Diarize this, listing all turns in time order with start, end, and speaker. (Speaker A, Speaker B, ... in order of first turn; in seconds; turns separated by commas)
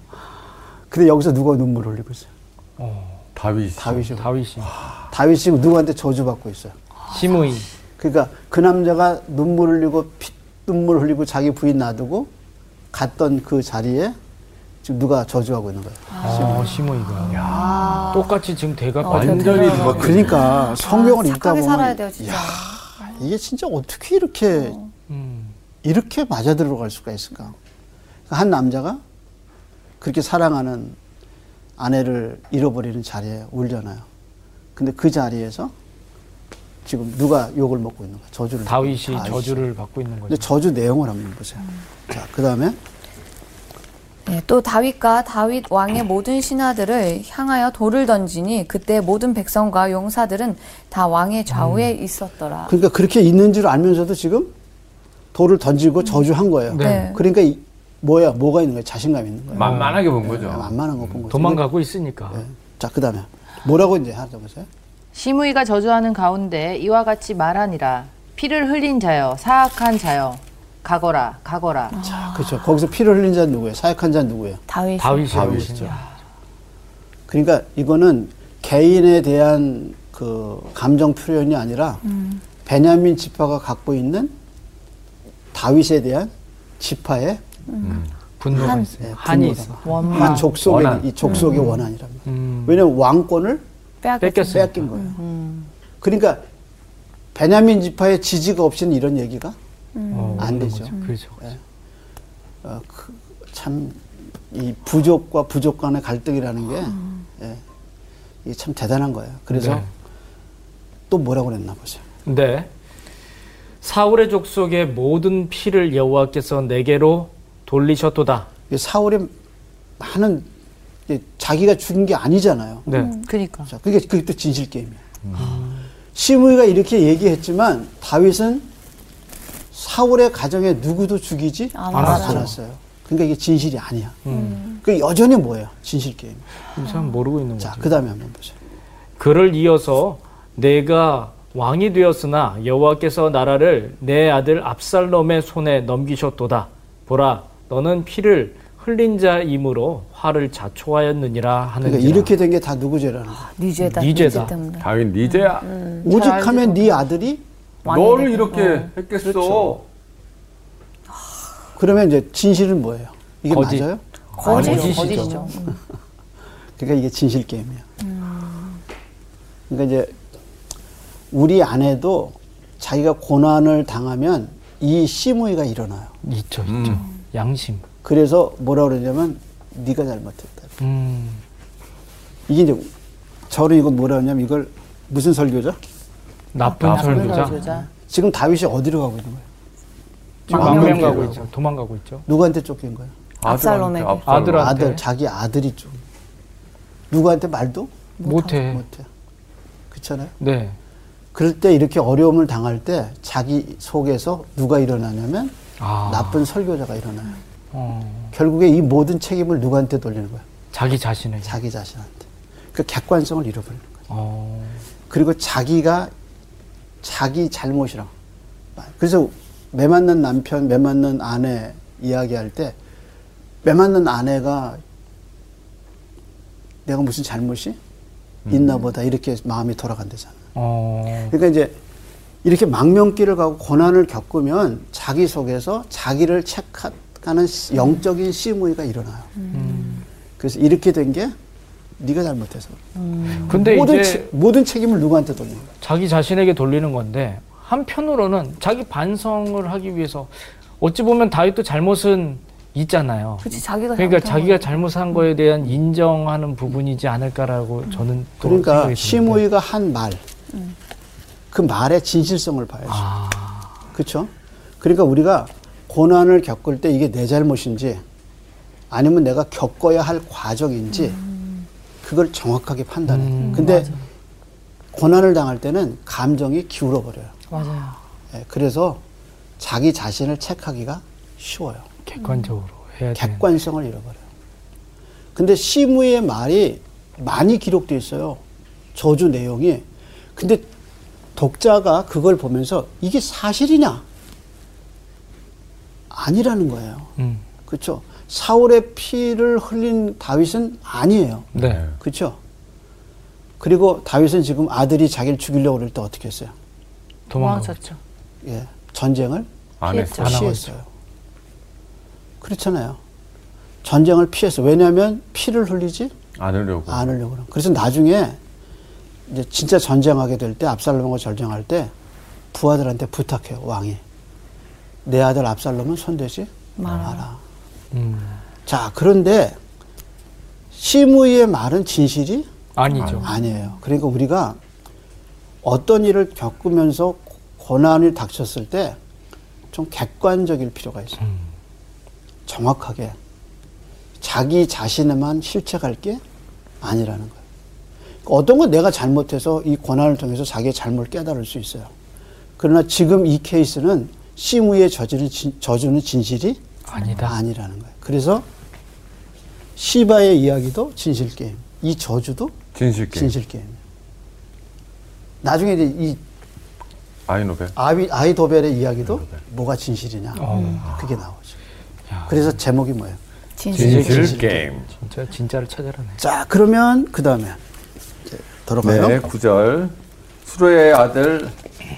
Speaker A: 0.9-2.3, Speaker B: 2.8-3.2, Speaker C: 3.4-5.1, Speaker A: 3.8-4.3, Speaker B: 4.1-4.7, Speaker A: 5.1-6.8, Speaker B: 7.1-7.7, Speaker A: 8.0-12.3, Speaker A: 12.9-14.2, Speaker A: 14.8-16.8, Speaker D: 16.1-18.3, Speaker B: 16.2-20.2, Speaker C: 17.3-18.3, Speaker D: 19.0-23.2, Speaker C: 19.1-20.5, Speaker A: 19.8-24.8, Speaker B: 25.1-25.6, Speaker A: 25.8-27.6, Speaker A: 28.3-29.0, Speaker A: 30.0-31.0, Speaker A: 31.8-34.1, Speaker A: 34.8-35.7, Speaker A: 36.9-39.7, Speaker B: 38.7-40.5, Speaker A: 40.3-42.8, Speaker D: 44.3-52.7, Speaker B: 51.5-51.9, Speaker A: 52.7-54.5, Speaker A: 55.3-61.7, Speaker B: 56.7-57.1, Speaker D: 56.8-57.2, Speaker C: 59.5-61.2, Speaker B: 59.6-60.0, Speaker B: 61.3-62.4, Speaker A: 62.3-64.7, Speaker E: 65.1-72.0, Speaker D: 71.9-72.7, Speaker A: 72.0-74.6, Speaker D: 74.7-75.6, Speaker B: 75.0-76.0, Speaker C: 75.3-75.9, Speaker A: 77.3-82.0, Speaker D: 82.1-82.4, Speaker A: 82.7-84.3, Speaker A: 85.5-87.4, Speaker D: 87.7-88.9, Speaker C: 87.8-88.1, Speaker B: 88.4-90.4, Speaker A: 88.5-93.6, Speaker E: 89.8-90.5, Speaker D: 90.1-90.4, Speaker C: 90.6-91.2, Speaker D: 91.2-91.7, Speaker B: 92.3-92.9, Speaker D: 94.0-95.2, Speaker B: 94.2-94.9, Speaker A: 94.5-95.2, Speaker E: 95.2-95.7, Speaker A: 96.0-96.4, Speaker A: 97.3-99.6, Speaker D: 100.0-101.1, Speaker B: 100.1-101.4, Speaker A: 100.4-101.6, Speaker A: 102.6-107.6, Speaker A: 108.5-109.9, Speaker B: 109.5-109.9, Speaker A: 111.1-112.0, Speaker B: 112.3-112.7, Speaker B: 113.8-118.5, Speaker A: 118.7-119.3, Speaker A: 120.0-120.5, Speaker A: 121.1-122.9, Speaker B: 122.9-123.2, Speaker D: 122.9-123.3, Speaker E: 123.2-123.7, Speaker A: 123.7-125.0, Speaker C: 125.3-125.6, Speaker E: 125.4-125.7, Speaker B: 125.4-125.7, Speaker A: 126.2-128.7, Speaker A: 129.7-134.2, Speaker D: 131.8-132.5, Speaker B: 131.9-132.5, Speaker B: 134.2-134.6, Speaker D: 134.3-134.8, Speaker A: 134.7-136.4, Speaker B: 136.8-138.0, Speaker A: 137.6-138.6, Speaker B: 139.2-152.4, Speaker A: 151.8-153.5, Speaker D: 153.5-154.9, Speaker B: 153.8-154.6, Speaker C: 154.8-155.7, Speaker D: 155.5-156.1, Speaker A: 156.0-157.4, Speaker E: 156.0-157.0, Speaker D: 157.8-158.9, Speaker C: 157.8-159.8, Speaker A: 159.2-159.8, Speaker A: 161.8-165.1, Speaker B: 163.5-163.9, Speaker C: 164.4-165.2, Speaker D: 164.4-165.8, Speaker B: 164.4-165.5, Speaker E: 164.4-165.6, Speaker A: 166.8-167.9, Speaker D: 168.1-168.8, Speaker A: 169.7-170.2, Speaker A: 171.3-176.1, Speaker B: 176.2-177.9, Speaker C: 176.7-177.1, Speaker A: 178.0-180.7, Speaker B: 180.8-181.4, Speaker A: 182.5-182.9, Speaker A: 183.5-185.8, Speaker B: 186.5-187.6, Speaker D: 186.6-187.7, Speaker C: 186.8-187.1, Speaker A: 186.9-189.4, Speaker E: 187.1-187.9, Speaker A: 190.5-191.5, Speaker B: 190.5-192.3, Speaker D: 190.5-190.8, Speaker C: 190.5-191.4, Speaker A: 192.3-193.1, Speaker C: 193.4-194.8, Speaker D: 193.4-194.4, Speaker B: 194.3-195.0, Speaker A: 194.5-196.0, Speaker A: 197.1-197.9, Speaker D: 198.2-198.6, Speaker B: 198.2-198.8, Speaker A: 198.7-199.1, Speaker A: 199.9-200.3, Speaker B: 200.4-200.8, Speaker A: 201.3-207.4, Speaker B: 205.8-206.5, Speaker B: 207.7-208.3, Speaker A: 208.3-210.4, Speaker B: 210.7-211.6, Speaker A: 211.4-214.0, Speaker B: 214.1-214.8, Speaker A: 215.1-216.1, Speaker A: 217.0-218.1, Speaker A: 218.8-222.8, Speaker A: 223.6-224.8, Speaker A: 226.9-227.8, Speaker C: 228.5-228.7, Speaker A: 228.5-230.4, Speaker B: 230.6-231.3, Speaker A: 231.3-231.8, Speaker A: 232.4-239.3, Speaker D: 239.4-240.0, Speaker B: 239.5-240.0, Speaker A: 240.4-241.3, Speaker A: 242.0-242.8, Speaker E: 243.0-243.4, Speaker B: 243.4-244.3, Speaker A: 243.5-245.7, Speaker B: 245.8-259.4, Speaker D: 253.4-254.7, Speaker A: 258.4-260.2, Speaker A: 261.5-263.1, Speaker B: 262.9-263.7, Speaker A: 263.9-268.0, Speaker A: 268.9-271.2, Speaker A: 272.0-273.9, Speaker B: 273.1-273.9, Speaker E: 273.6-274.0, Speaker A: 274.9-277.3, Speaker E: 277.5-278.0, Speaker A: 278.3-279.0, Speaker A: 279.6-281.9, Speaker B: 282.1-283.5, Speaker A: 283.1-284.2, Speaker A: 285.4-288.4, Speaker A: 288.9-290.7, Speaker A: 291.4-294.0, Speaker A: 296.1-297.1, Speaker B: 297.2-297.4, Speaker A: 297.7-302.4, Speaker B: 301.6-301.8, Speaker C: 301.6-301.9, Speaker A: 303.6-306.5, Speaker B: 307.3-307.8, Speaker E: 307.4-308.0, Speaker A: 308.4-309.5, Speaker C: 309.8-310.5, Speaker E: 309.9-310.4, Speaker A: 310.2-310.9, Speaker B: 310.2-310.7, Speaker A: 312.4-313.0, Speaker A: 313.8-316.1, Speaker C: 316.4-317.1, Speaker A: 316.9-318.4, Speaker A: 319.3-321.9, Speaker A: 322.5-324.0, Speaker A: 325.1-327.4, Speaker D: 326.8-327.2, Speaker B: 327.9-328.4, Speaker A: 328.7-329.6, Speaker A: 330.7-332.5, Speaker B: 332.8-333.3, Speaker C: 333.0-333.2, Speaker D: 333.0-333.7, Speaker A: 333.2-334.6, Speaker A: 335.6-339.0, Speaker A: 339.7-341.2, Speaker A: 342.5-343.2, Speaker A: 344.2-346.2, Speaker A: 346.8-347.4, Speaker A: 348.2-351.9, Speaker A: 352.6-356.6, Speaker B: 356.9-357.4, Speaker A: 357.2-358.5, Speaker A: 359.8-362.6, Speaker C: 362.7-363.3, Speaker A: 363.1-363.8, Speaker A: 365.4-366.2, Speaker C: 367.3-367.8, Speaker A: 367.8-371.6, Speaker B: 370.4-370.9, Speaker B: 372.1-372.5, Speaker A: 372.3-373.2, Speaker D: 373.6-374.3, Speaker C: 373.7-374.9, Speaker B: 373.7-376.2, Speaker A: 373.8-374.6, Speaker A: 376.2-377.6, Speaker A: 378.3-379.2, Speaker C: 378.8-381.5